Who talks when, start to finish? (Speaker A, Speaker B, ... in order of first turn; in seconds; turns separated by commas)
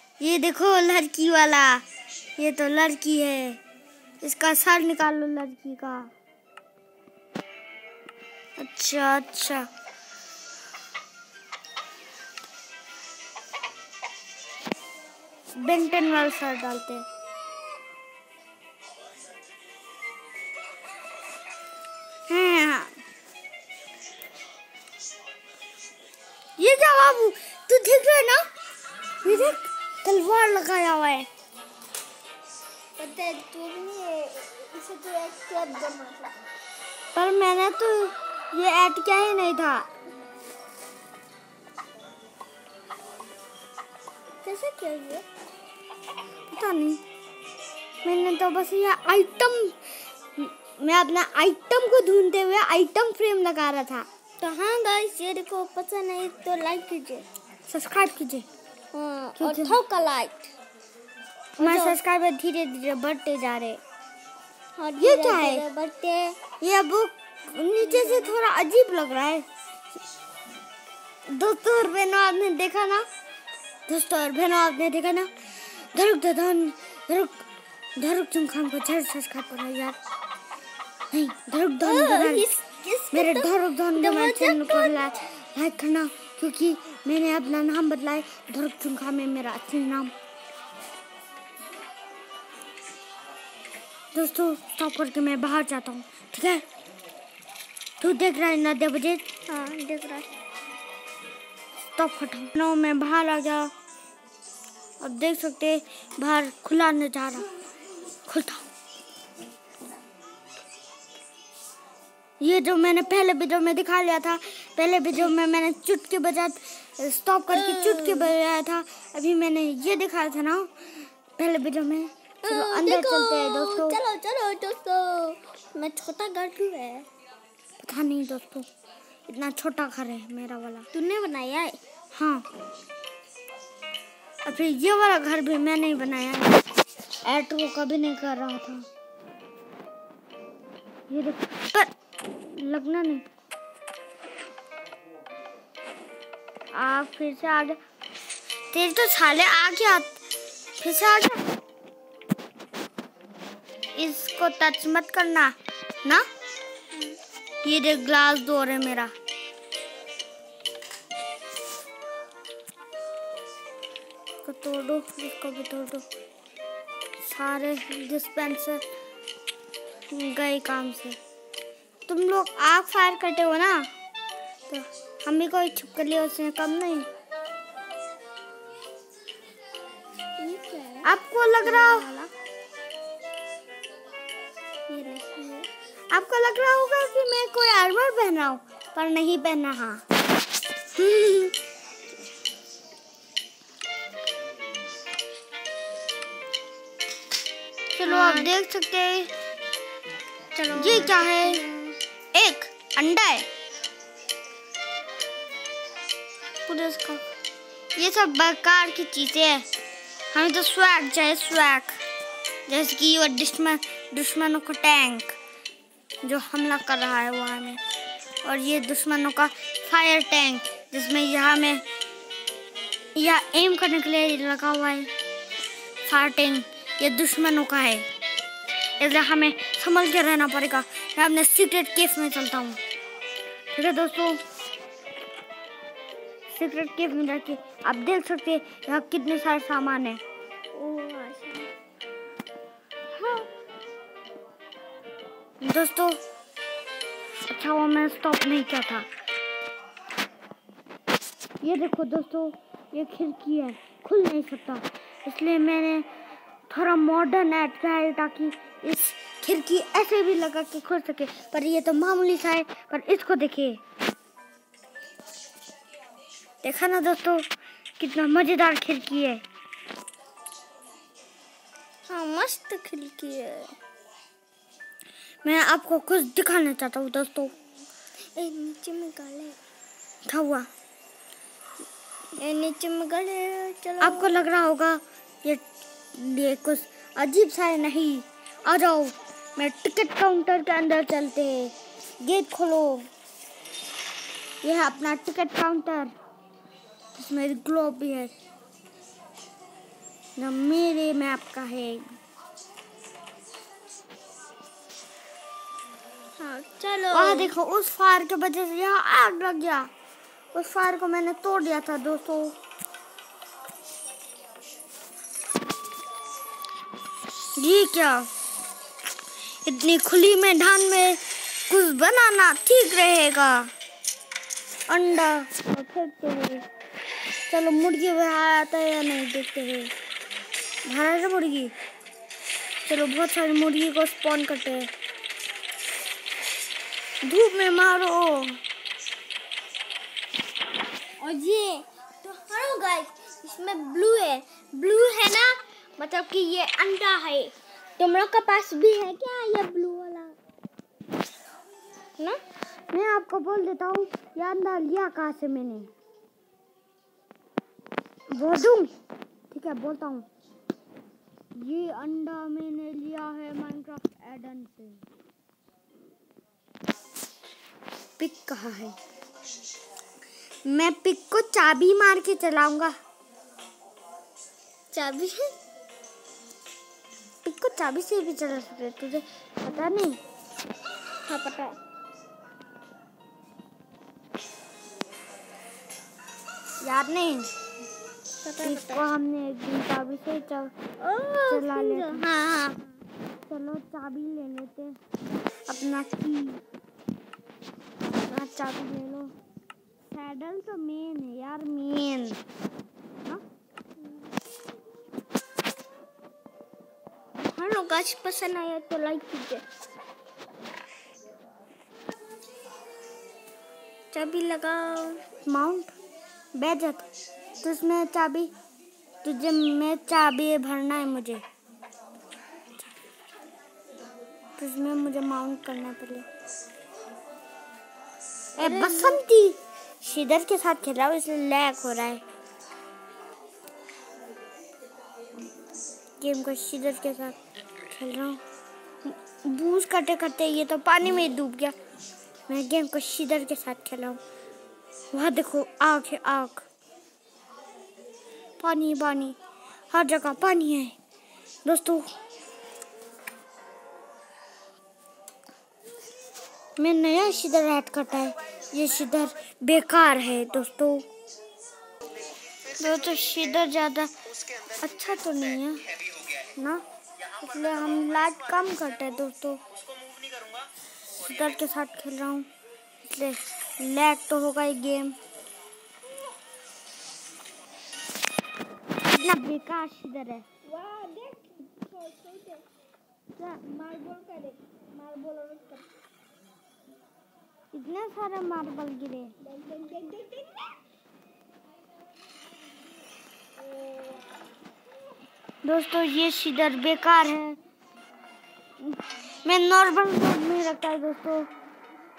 Speaker A: 0.2-1.8, Speaker A: 2.4-3.6, Speaker A: 4.2-6.1, Speaker A: 8.6-9.7, Speaker A: 15.6-17.0, Speaker A: 22.3-22.9, Speaker A: 26.6-28.4, Speaker A: 29.2-31.3, Speaker B: 29.3-29.6, Speaker B: 33.0-36.4, Speaker A: 37.1-39.9, Speaker B: 44.4-45.2, Speaker A: 46.5-47.0, Speaker A: 48.0-49.8, Speaker A: 50.4-54.1, Speaker B: 54.4-57.2, Speaker A: 57.7-58.5, Speaker B: 58.9-60.5, Speaker A: 59.4-59.8, Speaker B: 61.6-62.0, Speaker A: 61.6-63.8, Speaker B: 64.8-66.4, Speaker A: 65.0-65.7, Speaker A: 66.6-69.5, Speaker A: 71.3-73.1, Speaker A: 73.9-75.3, Speaker A: 76.0-77.4, Speaker A: 78.0-80.0, Speaker A: 81.1-82.5, Speaker B: 81.8-85.2, Speaker A: 83.1-90.1, Speaker A: 94.1-96.6, Speaker A: 98.0-99.2, Speaker B: 99.5-100.3, Speaker A: 102.0-103.7, Speaker A: 105.0-107.5, Speaker A: 108.3-108.6, Speaker A: 112.4-120.7, Speaker B: 117.5-118.3, Speaker A: 121.4-124.0, Speaker B: 122.5-127.1, Speaker A: 127.8-128.7, Speaker A: 129.3-130.9, Speaker B: 130.9-131.8, Speaker A: 132.2-132.4, Speaker A: 134.5-136.6, Speaker A: 137.3-138.9, Speaker A: 141.1-141.9, Speaker A: 142.5-143.2, Speaker A: 146.7-147.8, Speaker A: 148.7-150.1, Speaker A: 150.8-151.4, Speaker A: 154.0-155.5, Speaker A: 157.7-159.1, Speaker A: 164.4-166.0, Speaker A: 167.2-168.8, Speaker A: 170.1-171.2, Speaker A: 172.1-173.9, Speaker A: 174.7-177.1, Speaker B: 180.4-181.1, Speaker A: 181.0-182.1, Speaker B: 181.6-182.3, Speaker B: 184.9-185.7, Speaker A: 186.1-190.0, Speaker A: 191.0-191.5, Speaker A: 198.0-199.3, Speaker B: 198.0-198.5, Speaker B: 200.6-202.0, Speaker A: 200.8-201.6, Speaker A: 202.3-203.4, Speaker A: 206.7-207.2, Speaker A: 208.0-209.6, Speaker A: 210.3-212.0, Speaker A: 212.7-215.3, Speaker A: 216.2-217.8, Speaker A: 218.4-221.8, Speaker A: 223.2-225.1, Speaker A: 226.1-228.1, Speaker A: 229.0-232.8, Speaker A: 233.7-234.4, Speaker A: 236.5-240.2, Speaker B: 240.7-241.7, Speaker B: 243.2-243.5, Speaker A: 245.6-246.2, Speaker A: 247.5-249.1, Speaker A: 251.6-256.1, Speaker A: 256.7-263.8, Speaker A: 266.6-267.4, Speaker A: 268.0-269.4, Speaker B: 272.1-273.7, Speaker A: 275.4-277.5, Speaker B: 278.4-279.6, Speaker A: 280.3-280.7, Speaker B: 282.4-284.3, Speaker A: 284.0-285.6, Speaker A: 286.1-293.1, Speaker A: 294.6-296.1, Speaker A: 297.2-298.3, Speaker A: 300.4-302.1, Speaker B: 306.4-307.5, Speaker A: 307.1-309.9, Speaker A: 310.5-312.6, Speaker A: 317.6-318.3, Speaker A: 319.7-323.7, Speaker A: 324.9-326.6, Speaker A: 327.5-329.9, Speaker A: 330.9-331.7, Speaker A: 332.9-334.9, Speaker A: 337.2-338.6, Speaker B: 341.2-350.3, Speaker A: 352.9-355.9, Speaker A: 358.3-358.9, Speaker A: 359.5-360.3, Speaker A: 361.6-365.0, Speaker A: 368.2-369.0, Speaker A: 370.7-372.9, Speaker B: 374.9-375.5, Speaker A: 377.4-380.2, Speaker B: 381.3-381.8, Speaker A: 386.8-387.5, Speaker B: 388.4-389.1, Speaker A: 388.6-390.7, Speaker B: 391.0-392.9, Speaker A: 391.5-392.3, Speaker A: 393.5-394.9, Speaker A: 395.7-396.6, Speaker A: 398.3-399.3, Speaker A: 400.1-402.4, Speaker B: 407.4-409.6, Speaker B: 414.1-415.2, Speaker A: 415.5-415.9, Speaker A: 416.6-417.1, Speaker A: 417.6-418.5, Speaker A: 419.2-421.4, Speaker A: 424.6-426.2, Speaker A: 428.6-432.2, Speaker B: 428.6-429.2, Speaker A: 436.2-437.4, Speaker A: 437.9-438.4, Speaker A: 439.1-441.8, Speaker A: 442.5-444.2, Speaker A: 445.1-446.6, Speaker A: 448.6-449.4, Speaker A: 449.9-450.9, Speaker A: 451.6-452.1, Speaker A: 456.8-461.1, Speaker A: 462.8-464.1, Speaker A: 464.8-465.8, Speaker A: 466.6-466.8, Speaker A: 467.4-469.6, Speaker A: 471.2-472.5, Speaker A: 473.1-475.2, Speaker A: 479.1-480.5, Speaker B: 480.7-482.6, Speaker B: 483.5-485.9, Speaker A: 487.7-489.3, Speaker B: 489.4-490.7, Speaker B: 493.8-494.2, Speaker A: 495.6-497.6, Speaker A: 498.8-501.5